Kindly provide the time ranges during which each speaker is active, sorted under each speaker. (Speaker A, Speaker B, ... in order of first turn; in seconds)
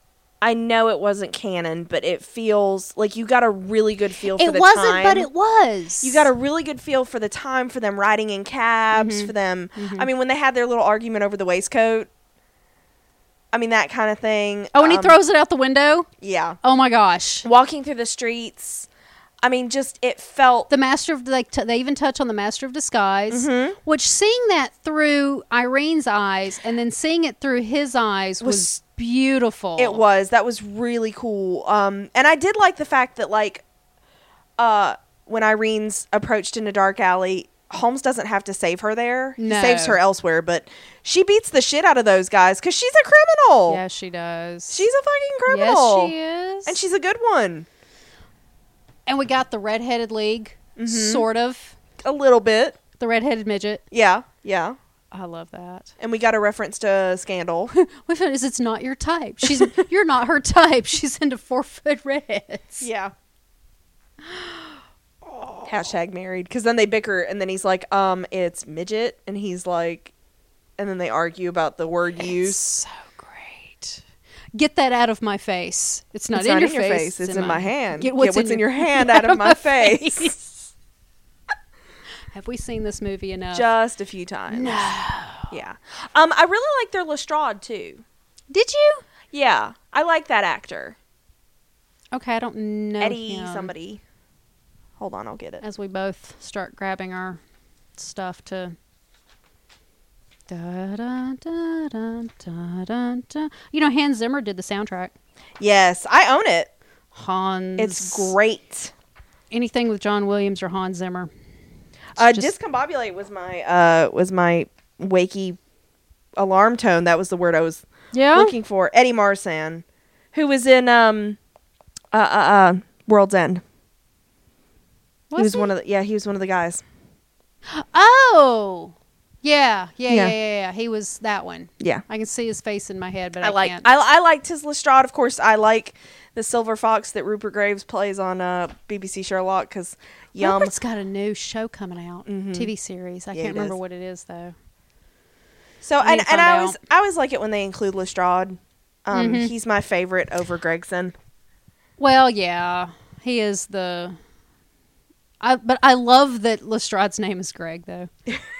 Speaker A: 0.4-5.3, 6.0-12.1, 13.5-15.2, 16.2-16.6, 17.4-18.9, 19.4-20.7, 23.3-23.8, 28.4-28.7, 29.8-33.6, 34.6-43.8, 44.7-46.1, 46.6-47.6, 50.8-51.2, 52.0-52.8, 53.9-54.8, 56.0-57.7, 62.8-63.1, 65.7-70.1, 70.8-72.6, 76.3-80.3, 83.5-84.8, 85.5-88.0, 89.3-91.0, 93.0-94.0, 95.0-95.6, 105.6-106.7, 107.8-108.9, 112.2-115.6, 116.4-121.4, 122.1-123.6, 125.3-126.8, 130.1-130.3, 133.4-140.7, 142.3-142.7, 143.3-143.7, 145.8-151.1
Speaker B: 4.3-6.3, 8.9-10.1, 14.7-16.1, 16.6-17.4, 20.7-30.0, 39.4-40.0, 43.7-44.9, 45.5-46.8, 49.0-51.8, 53.0-53.8, 55.1-55.9, 57.7-62.9, 64.2-65.9, 72.2-74.0, 74.5-80.7, 82.3-83.7, 84.5-85.5, 88.5-89.0, 92.1-93.7, 95.6-97.4, 98.0-98.8, 100.5-105.1, 107.1-108.3, 109.5-111.3, 112.2-112.5, 118.1-118.5, 125.3-125.7, 127.7-133.9, 140.4-144.5, 146.0-146.8, 149.1-149.5, 152.0-154.2, 155.4-158.1